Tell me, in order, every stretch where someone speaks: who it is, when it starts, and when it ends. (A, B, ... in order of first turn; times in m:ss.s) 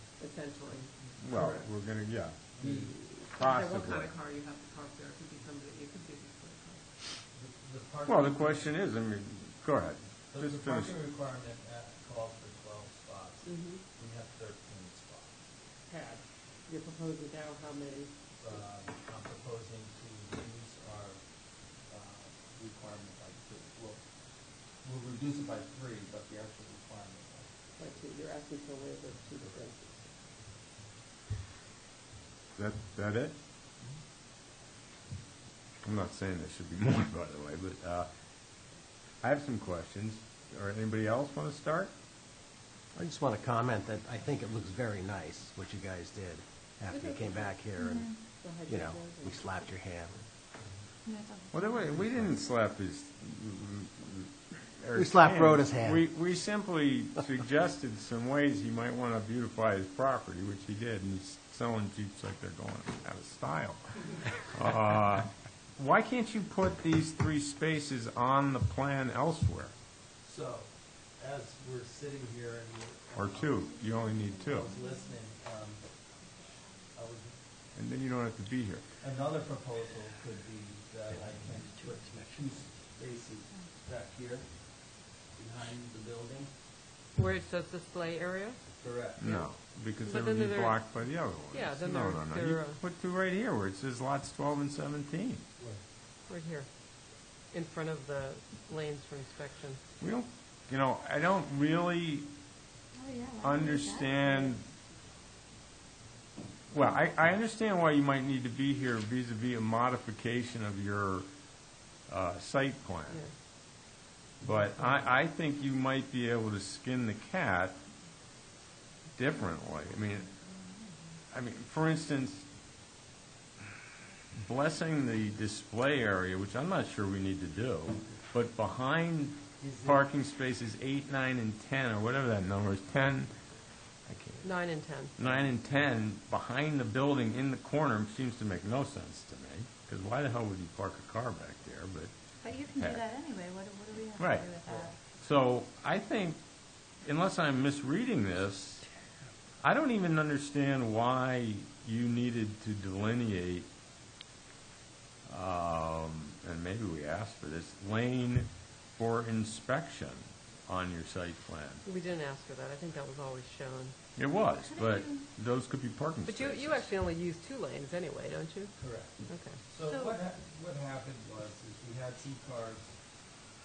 0:00.2-0:00.9 A
0:01.2-0:04.1 B
0:01.3-0:01.7 C
0:02.6-0:02.9 C
0:02.6-0:06.9 A
0:07.3-0:08.8 C
0:08.1-0:11.0 B
0:10.3-0:15.3 C
0:13.4-0:13.8 A
0:15.9-0:18.1 A
0:18.4-0:21.2 C
0:21.9-0:24.0 C
0:24.8-0:27.5 C
0:27.8-0:30.0 A
0:32.6-0:33.4 B
0:35.8-0:38.1 B
0:39.2-0:41.9 B
0:43.0-0:48.1 D
0:46.9-0:47.6 A
0:47.8-0:48.1 E
0:48.4-0:49.5 A
0:48.7-0:50.2 D
0:51.0-0:51.8 E
0:51.5-1:09.7 B
0:55.0-0:56.1 D
1:10.2-1:13.7 C
1:13.2-1:14.7 B
1:14.4-1:15.8 C
1:16.9-1:17.3 C
1:17.8-1:18.8 B
1:19.0-1:24.5 C
1:21.1-1:22.5 D
1:25.3-1:26.5 C
1:27.1-1:28.6 A
1:28.8-1:29.3 C
1:29.2-1:35.4 B
1:30.0-1:30.8 A
1:31.5-1:32.8 A
1:36.3-1:36.7 A
1:37.5-1:39.8 A
1:40.0-1:42.3 B
1:42.9-1:44.6 E
1:43.4-1:44.6 B
1:46.7-1:51.3 B
1:52.1-1:53.2 B
1:54.4-1:57.8 B
1:59.1-2:00.4 B
2:01.3-2:02.4 B
2:04.4-2:13.3 B
2:09.6-2:10.0 C
2:14.1-2:14.5 B
2:14.4-2:15.1 A
2:15.2-2:22.1 B
2:22.4-2:24.9 E
2:22.8-2:23.0 B
2:24.2-2:24.5 B
2:24.6-2:24.9 C
2:25.2-2:26.4 B
2:27.0-2:28.8 B
2:29.6-2:33.7 B
2:35.3-2:41.8 B
2:41.8-2:43.9 A
2:44.2-2:46.9 B
2:44.6-2:45.2 E
2:46.2-2:48.7 A
2:48.8-2:52.9 C
2:49.3-2:49.6 A
2:49.9-2:50.2 E